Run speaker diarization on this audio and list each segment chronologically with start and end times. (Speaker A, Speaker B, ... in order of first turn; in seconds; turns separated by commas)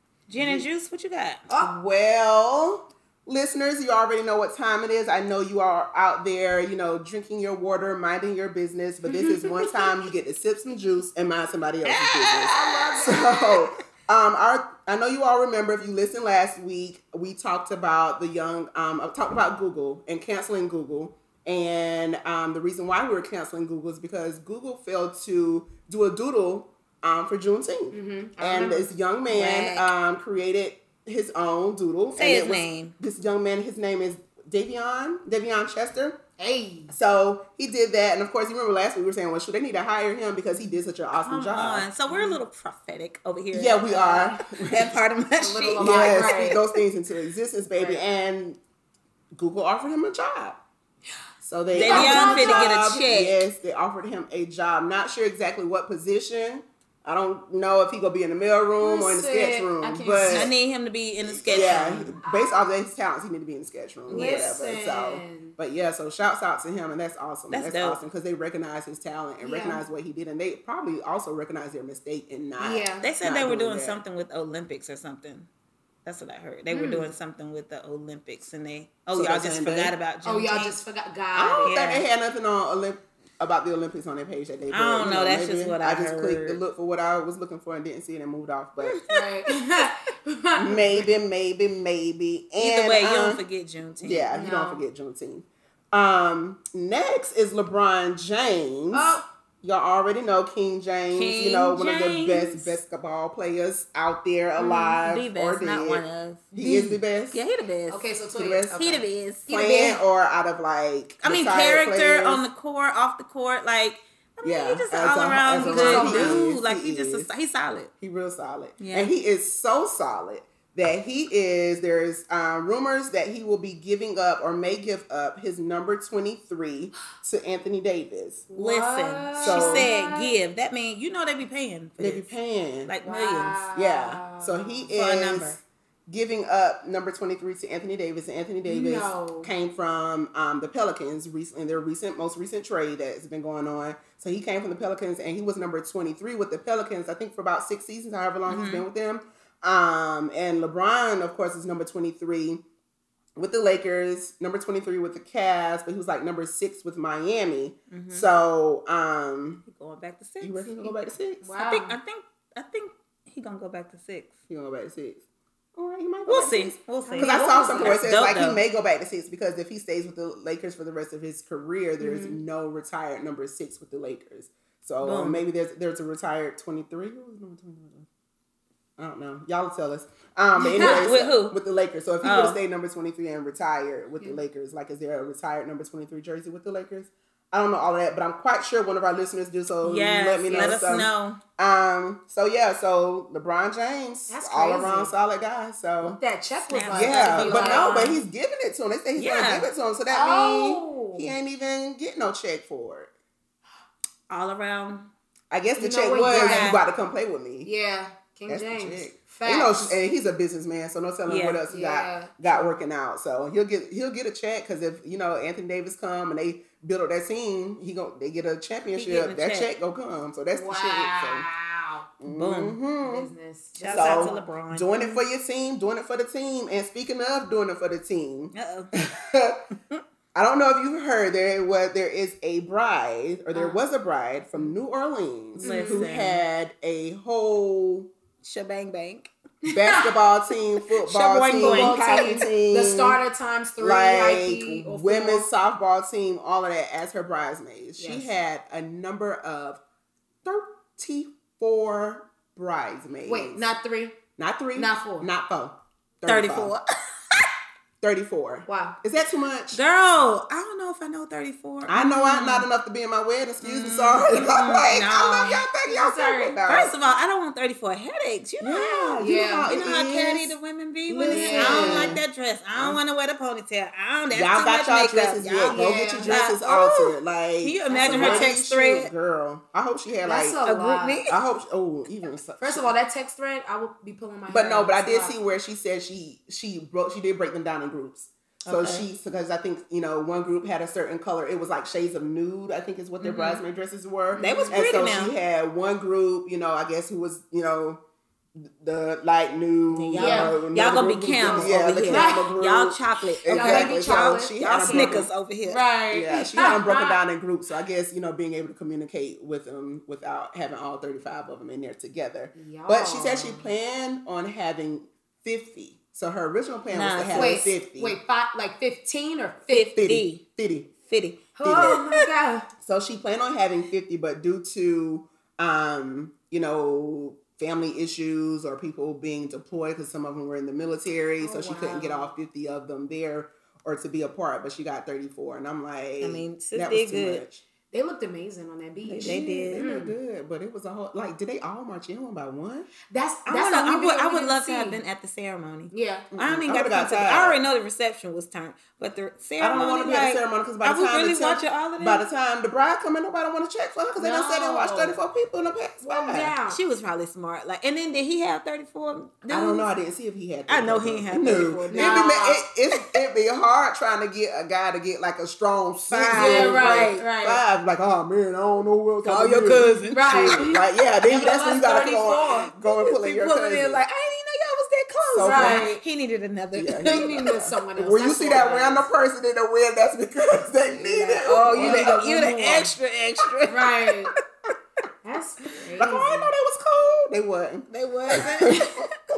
Speaker A: 0.3-1.4, Speaker B: 0.4-0.7, Speaker B: 1.5-36.2, Speaker C: 9.1-9.5, Speaker A: 11.8-13.7, Speaker C: 12.5-13.4, Speaker C: 27.9-28.9, Speaker A: 29.3-29.9, Speaker A: 32.1-32.9, Speaker C: 36.4-36.9, Speaker B: 36.9-41.9, Speaker A: 41.1-46.8, Speaker C: 42.1-42.4, Speaker B: 43.5-45.0, Speaker C: 43.9-44.4, Speaker C: 45.4-46.6, Speaker B: 45.8-48.6, Speaker C: 47.8-48.0, Speaker B: 49.3-50.6, Speaker B: 51.4-60.5, Speaker A: 51.7-53.4, Speaker C: 51.8-53.0, Speaker C: 58.8-60.5, Speaker A: 60.2-62.2, Speaker B: 61.4-74.0, Speaker C: 62.2-62.5, Speaker A: 64.1-64.6, Speaker C: 64.1-65.5, Speaker A: 67.5-68.0, Speaker C: 69.4-69.8, Speaker C: 72.6-73.1, Speaker A: 73.0-75.5, Speaker A: 76.0-80.8, Speaker C: 76.7-77.1, Speaker B: 79.1-79.9, Speaker C: 80.2-81.7, Speaker B: 81.3-89.0, Speaker A: 81.6-82.0, Speaker A: 84.7-86.6, Speaker A: 88.8-89.1, Speaker C: 89.1-91.1, Speaker B: 90.6-93.4, Speaker A: 92.6-94.3, Speaker B: 94.0-107.4, Speaker C: 94.3-94.8, Speaker C: 98.9-99.2, Speaker A: 101.1-102.8, Speaker C: 104.6-105.0, Speaker A: 105.0-108.1, Speaker C: 107.9-110.0, Speaker B: 108.3-108.9, Speaker A: 108.7-109.5, Speaker B: 109.5-112.4, Speaker A: 111.2-117.9, Speaker B: 114.4-117.3, Speaker C: 115.6-116.4, Speaker B: 118.0-128.4, Speaker A: 118.8-119.1, Speaker C: 128.5-130.3, Speaker A: 128.6-132.3, Speaker B: 129.4-129.9, Speaker B: 132.0-132.9, Speaker A: 132.9-133.6, Speaker C: 133.0-134.9, Speaker B: 133.7-152.6, Speaker A: 134.9-135.6, Speaker C: 138.7-139.5, Speaker A: 148.5-148.8, Speaker B: 153.3-159.6, Speaker A: 157.9-158.3, Speaker A: 159.7-160.9, Speaker B: 160.4-161.5, Speaker C: 161.4-161.9, Speaker A: 161.6-164.3, Speaker B: 164.5-165.2, Speaker B: 165.7-178.1, Speaker A: 166.3-168.6, Speaker C: 167.0-168.1, Speaker C: 172.0-172.4, Speaker A: 175.0-175.4, Speaker B: 179.0-196.2, Speaker C: 180.6-181.1, Speaker A: 180.8-181.6, Speaker A: 182.2-182.6, Speaker A: 189.8-191.4, Speaker C: 190.5-190.8, Speaker C: 194.3-195.1, Speaker C: 196.0-198.0, Speaker A: 196.7-198.2, Speaker B: 196.9-203.1, Speaker A: 199.2-199.7, Speaker C: 200.1-201.3, Speaker A: 204.3-205.1, Speaker B: 205.5-207.7, Speaker C: 205.8-206.7, Speaker A: 206.3-206.8, Speaker C: 207.6-210.0, Speaker B: 208.5-221.5, Speaker A: 211.3-211.6, Speaker C: 211.7-212.8, Speaker A: 218.9-219.7, Speaker C: 220.5-222.1, Speaker B: 222.2-223.3, Speaker A: 222.2-222.8, Speaker C: 223.0-225.2, Speaker A: 223.8-225.0, Speaker B: 223.9-229.6, Speaker A: 228.5-228.9, Speaker B: 230.3-238.1, Speaker C: 233.5-233.8, Speaker A: 235.6-236.4, Speaker C: 235.6-236.1, Speaker A: 238.4-239.3, Speaker C: 239.6-240.2, Speaker B: 239.7-243.2, Speaker A: 241.0-242.3, Speaker C: 241.6-245.5, Speaker B: 243.8-249.8, Speaker C: 248.0-248.3, Speaker B: 250.4-253.6, Speaker C: 253.2-254.2, Speaker B: 254.4-256.8, Speaker C: 254.7-255.3, Speaker A: 256.2-257.5, Speaker B: 258.0-259.8, Speaker C: 258.7-259.0, Speaker A: 259.7-262.6, Speaker B: 261.9-266.9, Speaker A: 263.6-265.6, Speaker C: 265.8-266.6, Speaker A: 266.7-279.1, Speaker B: 268.6-270.6, Speaker C: 269.2-269.7, Speaker B: 271.1-272.2, Speaker C: 271.3-272.2, Speaker B: 272.7-273.0, Speaker B: 274.3-280.6, Speaker C: 275.7-276.4, Speaker C: 277.9-278.5, Speaker C: 280.2-281.2, Speaker A: 280.6-281.4, Speaker B: 281.2-282.9, Speaker C: 282.6-285.3, Speaker B: 284.5-298.0, Speaker A: 288.6-289.1, Speaker A: 293.2-293.6, Speaker C: 294.3-294.9, Speaker A: 294.4-295.3, Speaker B: 298.6-305.3, Speaker A: 299.9-305.8, Speaker C: 300.1-300.6, Speaker C: 301.2-302.5, Speaker C: 303.5-307.2, Speaker B: 306.1-318.2, Speaker C: 312.5-313.7, Speaker A: 316.9-317.7, Speaker C: 317.3-319.9, Speaker A: 319.7-320.4, Speaker B: 319.9-320.9, Speaker A: 321.1-322.2, Speaker C: 321.6-322.7, Speaker B: 321.6-321.9, Speaker B: 322.8-337.6, Speaker C: 331.4-332.3, Speaker A: 336.2-337.4, Speaker C: 337.9-340.1, Speaker A: 339.1-339.9, Speaker B: 339.2-342.9, Speaker C: 343.1-345.0, Speaker A: 343.5-352.2, Speaker C: 345.9-346.3, Speaker B: 346.3-347.6, Speaker B: 349.6-356.5, Speaker C: 354.2-355.2, Speaker C: 356.0-356.8, Speaker A: 356.7-359.9, Speaker B: 359.5-374.0, Speaker A: 360.7-362.2, Speaker C: 361.9-362.6, Speaker A: 366.1-367.3, Speaker C: 366.3-367.6, Speaker A: 369.2-370.7, Speaker C: 370.1-372.7, Speaker A: 372.7-377.5, Speaker B: 375.2-375.9, Speaker C: 375.4-376.0, Speaker B: 376.7-382.1, Speaker C: 377.0-379.1, Speaker A: 380.9-384.3, Speaker C: 381.7-382.9, Speaker C: 383.7-384.3, Speaker C: 385.2-386.5, Speaker B: 385.9-388.9, Speaker A: 387.9-389.1